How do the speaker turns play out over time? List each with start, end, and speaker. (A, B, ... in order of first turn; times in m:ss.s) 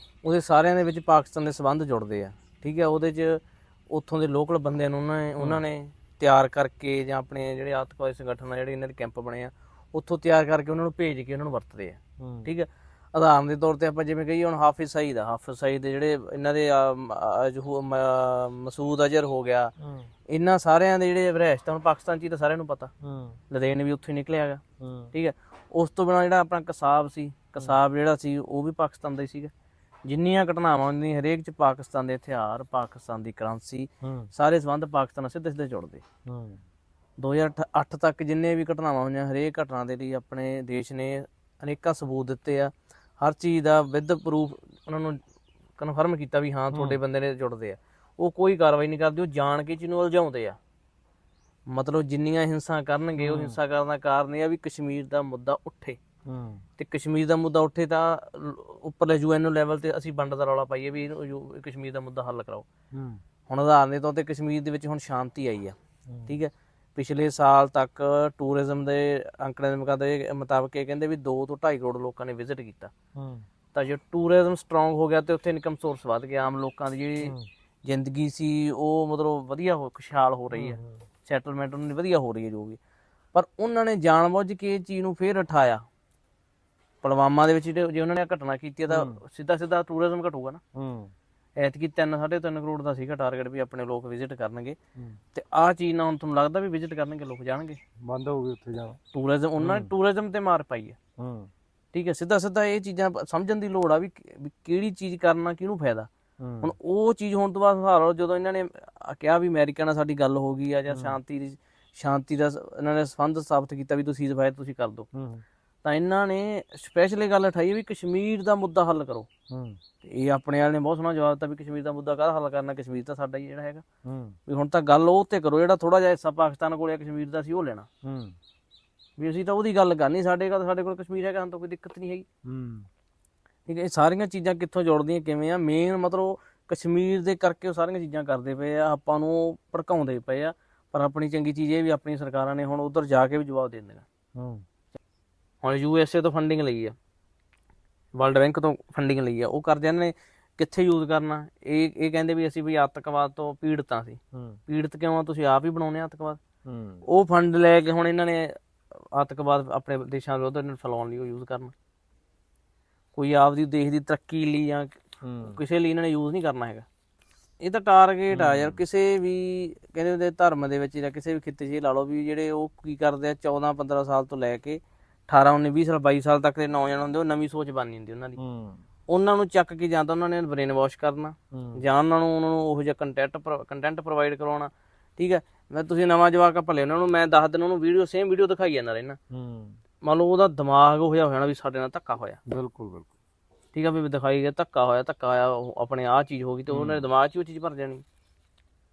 0:00.2-0:19.7 A
0:12.2-0:12.5 B
0:19.8-0:20.1 B
0:20.3-0:22.9 A
0:23.0-0:23.4 B
0:23.5-0:24.6 A
0:24.8-0:25.1 B
0:25.1-0:29.5 A
0:30.1-0:36.0 A
0:34.0-0:34.3 B
0:36.3-0:36.6 B
0:37.2-0:45.2 A
0:45.8-0:50.6 A
0:46.7-0:47.0 B
0:51.7-0:56.0 A
0:53.2-0:53.6 B
0:56.3-0:56.6 B
0:56.8-1:02.7 A
1:02.9-1:03.2 B
1:03.5-1:05.8 A
1:06.3-1:12.9 A
1:13.2-1:13.4 B
1:13.7-1:17.3 A
1:17.2-1:17.5 B
1:17.8-1:22.8 A
1:20.5-1:21.0 B
1:23.3-1:25.8 A
1:27.0-1:30.6 A
1:28.9-1:29.2 B
1:30.8-1:31.1 B
1:31.6-1:34.8 A
1:35.3-1:37.8 A
1:38.0-1:39.0 B
1:39.1-1:41.0 A
1:39.6-1:39.9 B
1:41.2-1:41.5 B
1:41.9-1:46.1 A
1:46.4-1:46.7 B
1:46.6-1:55.1 A
1:50.9-1:51.2 B
1:55.1-1:55.4 B
1:55.8-1:59.3 A
1:59.5-1:59.8 B
2:00.0-2:03.8 A
2:04.0-2:04.4 B
2:04.5-2:07.9 A
2:08.0-2:08.4 B
2:09.2-2:12.3 A
2:12.5-2:12.9 B
2:13.7-2:24.0 A
2:24.4-2:24.6 B
2:25.6-2:27.0 A
2:28.2-2:36.4 A
2:34.3-2:34.6 B
2:36.6-2:37.0 B
2:37.1-2:41.7 A
2:43.1-2:46.9 A
2:45.2-2:45.6 B
2:47.6-2:58.4 A
2:48.3-2:48.8 B
2:58.4-2:58.8 B
2:59.1-3:09.2 A
3:01.5-3:01.8 B
3:09.3-3:09.8 B
3:10.1-3:12.4 A
3:12.5-3:13.1 B
3:13.7-3:18.0 A
3:16.7-3:17.1 B